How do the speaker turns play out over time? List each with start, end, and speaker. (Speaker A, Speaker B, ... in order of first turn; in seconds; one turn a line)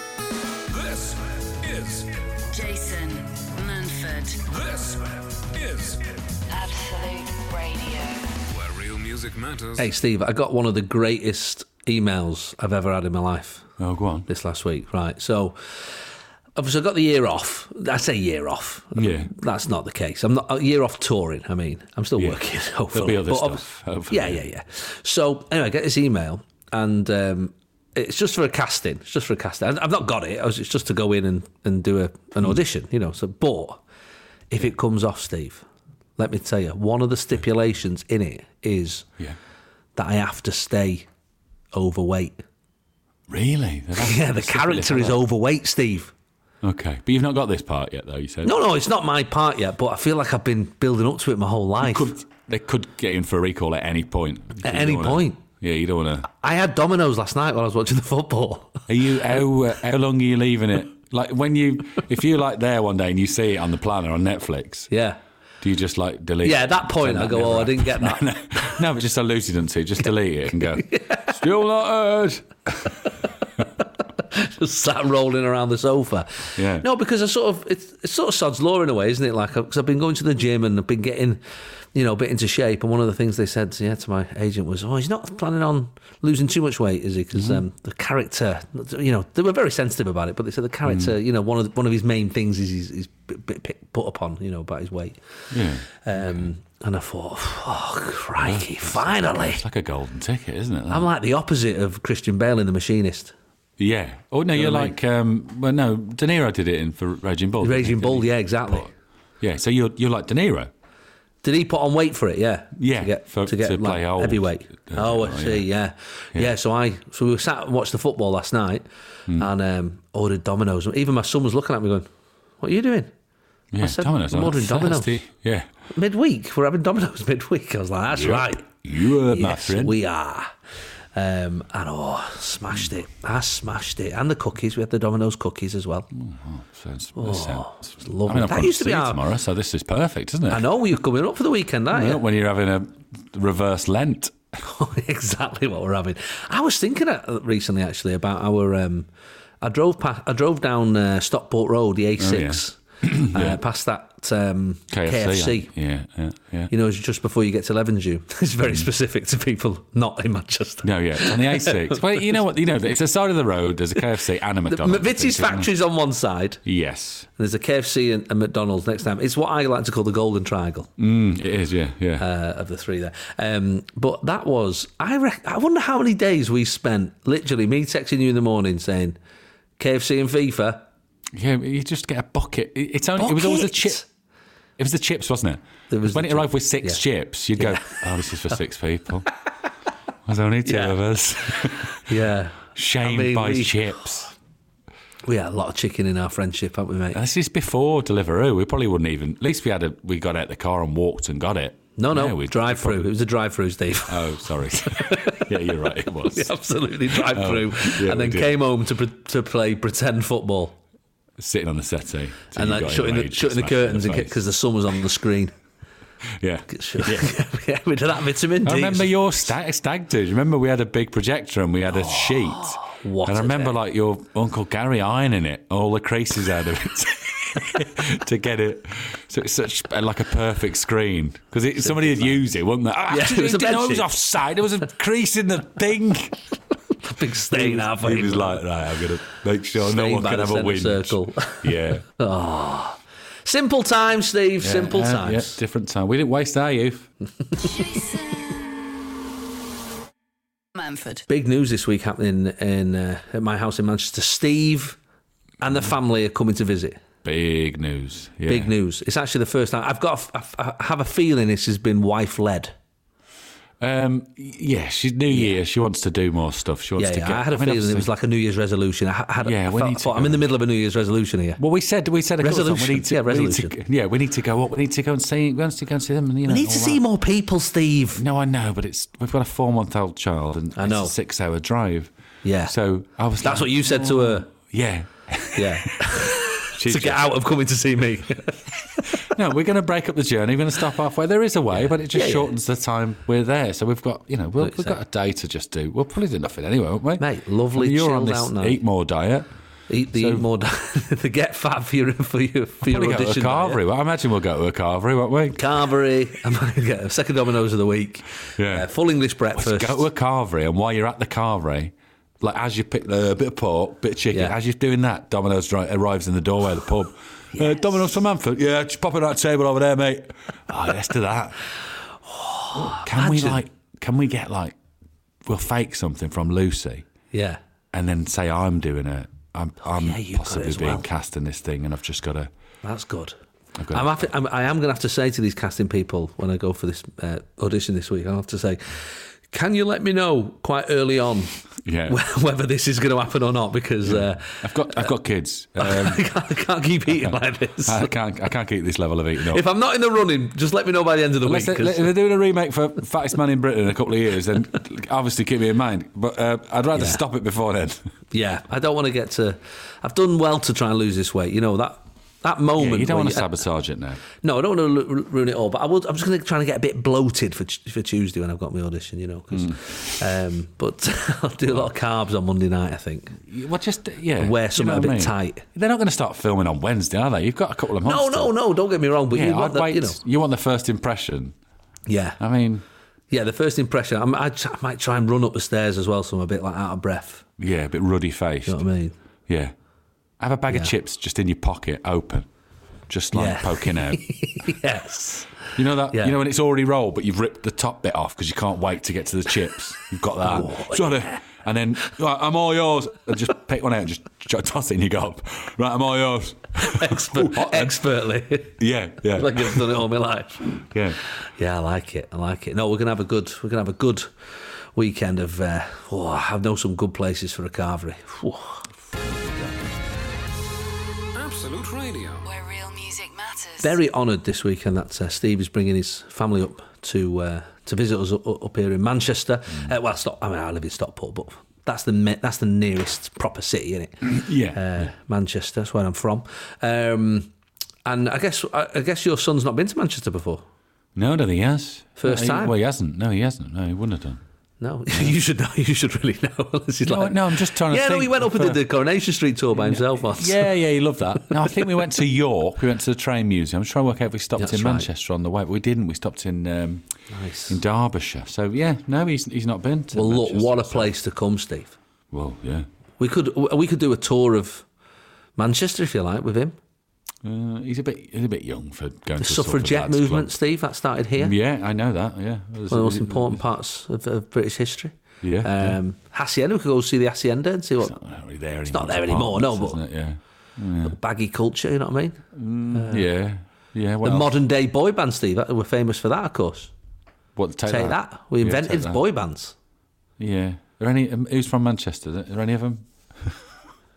Speaker A: 0.7-2.3
Speaker B: 2.5-4.4
Speaker A: 4.5-6.3
Speaker B: 6.5-8.3
Speaker A: 8.4-9.9
Speaker C: 9.8-13.7
Speaker D: 13.8-14.3
Speaker C: 14.3-16.0
Speaker C: 16.6-33.8
Speaker D: 18.9-19.3
Speaker D: 22.2-24.4
Speaker C: 34.5-35.6
Speaker C: 36.2-39.1
Speaker C: 40.0-41.1
Speaker C: 41.7-42.4
Speaker D: 43.3-45.2
Speaker C: 44.0-46.1
Speaker D: 46.6-48.6
Speaker C: 48.4-52.1
Speaker D: 51.8-56.3
Speaker C: 54.6-55.4
Speaker C: 56.3-58.8
Speaker D: 58.9-64.9
Speaker C: 64.9-65.2
Speaker D: 65.6-73.0
Speaker C: 66.4-68.2
Speaker C: 70.9-71.3
Speaker C: 74.2-81.4
Speaker D: 76.6-76.8
Speaker C: 81.9-99.6
Speaker D: 87.3-87.6
Speaker D: 90.8-91.1
Speaker D: 95.5-96.5
Speaker D: 98.4-101.1
Speaker C: 100.9-103.3
Speaker D: 103.8-110.7
Speaker C: 104.5-105.0
Speaker C: 107.6-108.9
Speaker C: 111.4-122.1
Speaker D: 112.7-115.7
Speaker C: 122.6-123.1
Speaker D: 123.7-125.7
Speaker C: 123.8-125.2
Speaker C: 125.9-130.5
Speaker D: 128.1-130.0
Speaker C: 131.1-136.1
Speaker D: 136.1-140.7
Speaker C: 137.2-139.2
Speaker C: 140.5-142.2
Speaker D: 141.9-144.3
Speaker C: 144.6-149.1
Speaker C: 149.6-155.7
Speaker D: 152.2-153.6
Speaker D: 154.9-156.7
Speaker C: 156.7-162.3
Speaker D: 160.8-165.7
Speaker C: 164.7-166.6
Speaker D: 166.6-167.3
Speaker C: 167.3-170.9
Speaker D: 171.0-172.2
Speaker C: 172.2-179.2
Speaker C: 179.8-180.8
Speaker D: 181.3-184.0
Speaker C: 183.2-184.1
Speaker D: 184.8-189.3
Speaker C: 185.9-187.0
Speaker C: 187.6-188.0
Speaker D: 190.2-192.0
Speaker C: 190.6-193.9
Speaker D: 192.7-194.3
Speaker C: 195.2-197.2
Speaker D: 197.1-203.0
Speaker C: 202.0-210.8
Speaker D: 204.1-206.5
Speaker D: 207.1-208.6
Speaker D: 211.4-214.4
Speaker C: 212.6-215.5
Speaker D: 216.4-217.3
Speaker C: 216.7-219.2
Speaker D: 218.6-236.4
Speaker C: 221.9-223.8
Speaker C: 231.8-232.4
Speaker C: 233.1-234.1
Speaker C: 237.0-238.6
Speaker D: 237.5-242.0
Speaker C: 239.8-245.6
Speaker D: 244.6-247.1
Speaker C: 247.6-247.8
Speaker B: 247.6-248.8
Speaker B: 250.7-251.2
Speaker C: 251.3-255.0
Speaker C: 255.6-257.0
Speaker D: 257.2-258.7
Speaker C: 258.5-262.7
Speaker D: 263.8-268.1
Speaker C: 265.3-265.6
Speaker C: 267.0-271.6
Speaker D: 269.4-270.4
Speaker D: 271.6-277.0
Speaker C: 272.4-273.8
Speaker C: 276.5-278.2
Speaker D: 278.1-282.1
Speaker C: 280.7-281.1
Speaker C: 282.4-282.7
Speaker D: 282.6-287.3
Speaker C: 283.4-284.5
Speaker C: 285.5-289.3
Speaker D: 289.2-299.5
Speaker C: 291.8-292.5
Speaker C: 294.6-295.0
Speaker C: 297.2-298.8
Speaker C: 299.9-303.8
Speaker D: 300.1-300.4
Speaker D: 302.8-305.6
Speaker C: 305.5-310.1
Speaker D: 308.6-308.9
Speaker D: 309.5-321.6
Speaker C: 317.5-317.8
Speaker C: 322.3-323.6
Speaker D: 322.7-324.7
Speaker D: 325.4-327.1
Speaker C: 327.3-327.6
Speaker D: 327.9-332.5
Speaker C: 329.8-331.1
Speaker C: 332.8-333.4
Speaker D: 333.8-334.3
Speaker C: 333.9-341.5
Speaker D: 341.8-342.2
Speaker C: 342.1-345.1
Speaker D: 344.0-346.2
Speaker C: 345.8-348.1
Speaker D: 347.8-349.6
Speaker C: 349.4-352.1
Speaker D: 351.4-358.0
Speaker C: 356.9-357.2
Speaker C: 358.3-363.5
Speaker D: 362.8-364.2
Speaker C: 364.4-373.4
Speaker D: 369.5-369.8
Speaker D: 373.4-378.5
Speaker C: 374.4-375.6
Speaker C: 378.0-380.2
Speaker D: 379.3-381.6
Speaker C: 382.1-382.4
Speaker D: 382.4-382.8
Speaker C: 383.3-387.4
Speaker D: 387.6-388.8
Speaker C: 388.6-389.1
Speaker D: 389.5-389.7
Speaker D: 390.4-392.5
Speaker D: 393.1-394.2
Speaker C: 393.3-396.4
Speaker D: 395.8-408.0
Speaker C: 400.4-401.4
Speaker C: 406.8-410.8
Speaker D: 408.8-410.0
Speaker D: 410.9-411.2
Speaker C: 411.4-414.3
Speaker C: 414.9-418.8
Speaker D: 419.1-419.8
Speaker A: 421.3-422.5
Speaker B: 422.4-423.9
Speaker C: 423.8-437.5
Speaker D: 434.2-435.1
Speaker C: 438.0-440.6
Speaker D: 441.1-444.4
Speaker C: 442.2-442.8
Speaker C: 444.8-450.7
Speaker D: 447.0-448.8
Speaker D: 449.8-457.1
Speaker C: 451.4-451.7
Speaker C: 454.6-455.1
Speaker C: 457.3-457.8
Speaker D: 457.7-461.1
Speaker C: 460.1-461.9
Speaker D: 462.3-462.9
Speaker C: 463.2-464.9
Speaker C: 465.6-466.8
Speaker D: 467.4-470.5
Speaker C: 469.4-471.5
Speaker D: 471.4-473.6
Speaker C: 472.9-478.1
Speaker D: 475.4-476.0
Speaker D: 478.0-481.1
Speaker C: 478.9-480.0
Speaker C: 481.0-483.3
Speaker D: 482.5-484.5
Speaker C: 484.2-486.9
Speaker D: 487.6-489.2
Speaker C: 487.9-489.7
Speaker D: 490.4-493.6